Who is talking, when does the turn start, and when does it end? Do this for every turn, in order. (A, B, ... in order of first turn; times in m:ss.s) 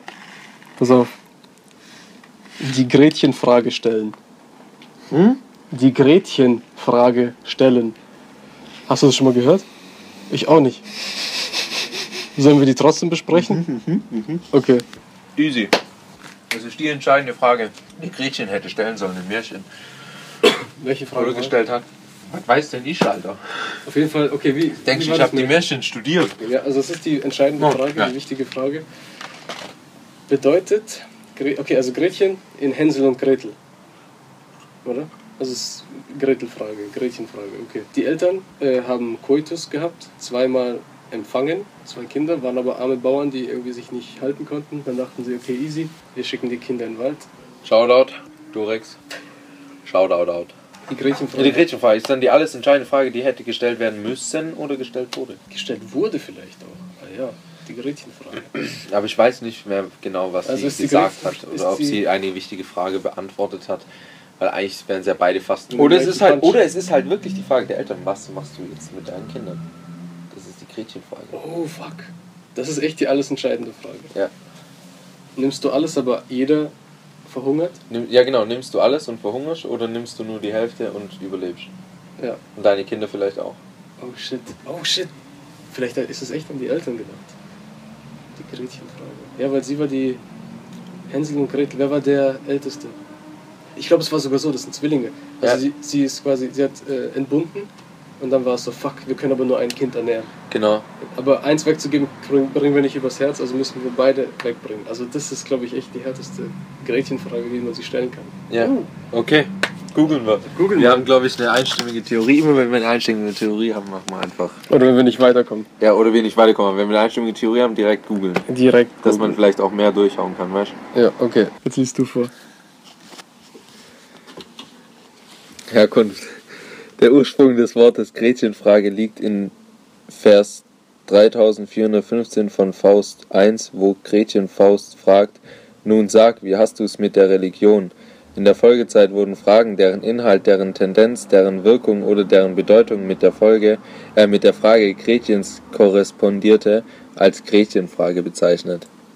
0:00.8-0:01.1 A
0:02.6-0:04.2 A
0:05.1-0:05.4 B
0:05.7-0:08.0 A
0:08.9-0:09.6 A
0:10.3-0:10.8 A
0:12.4-0:13.6 A
0:13.3-0:14.4 B
0:14.5-0:14.8 A
0:15.4-0:15.7 B
0:16.5-0:19.7 B
0:20.7-0:21.5 A
0:21.1-0:23.4 B
0:23.8-0:25.6 A
0:24.8-0:26.4 B
0:26.4-0:28.8 A
0:27.6-0:28.1 B
0:30.3-0:33.6 A
0:34.8-0:47.3 A
0:47.6-0:49.0 B
0:49.8-0:50.5 B
0:50.9-0:51.6 A
0:51.3-0:55.4 B
0:55.5-0:58.7 A
0:58.8-1:03.8 B
1:00.4-1:02.0 A
1:04.4-1:09.6 B
1:05.7-1:06.6 A
1:10.3-1:11.4 B
1:11.3-1:14.1 A
1:15.4-1:16.7 A
1:17.2-1:17.8 A
1:17.9-1:21.7 B
1:22.6-1:23.6 B
1:24.0-1:25.1 A
1:25.7-1:27.3 A
1:28.4-1:30.2 A
1:31.1-1:33.0 A
1:33.8-1:40.3 A
1:40.5-1:40.8 B
1:41.1-1:48.9 A
1:48.5-1:54.6 B
1:50.4-1:51.1 A
1:54.7-1:55.7 A
1:55.8-1:58.4 B
1:58.5-1:59.4 A
1:59.0-2:00.7 B
2:00.9-2:02.3 A
2:05.7-2:06.4 B
2:07.0-2:09.5 B
2:10.1-2:28.9 B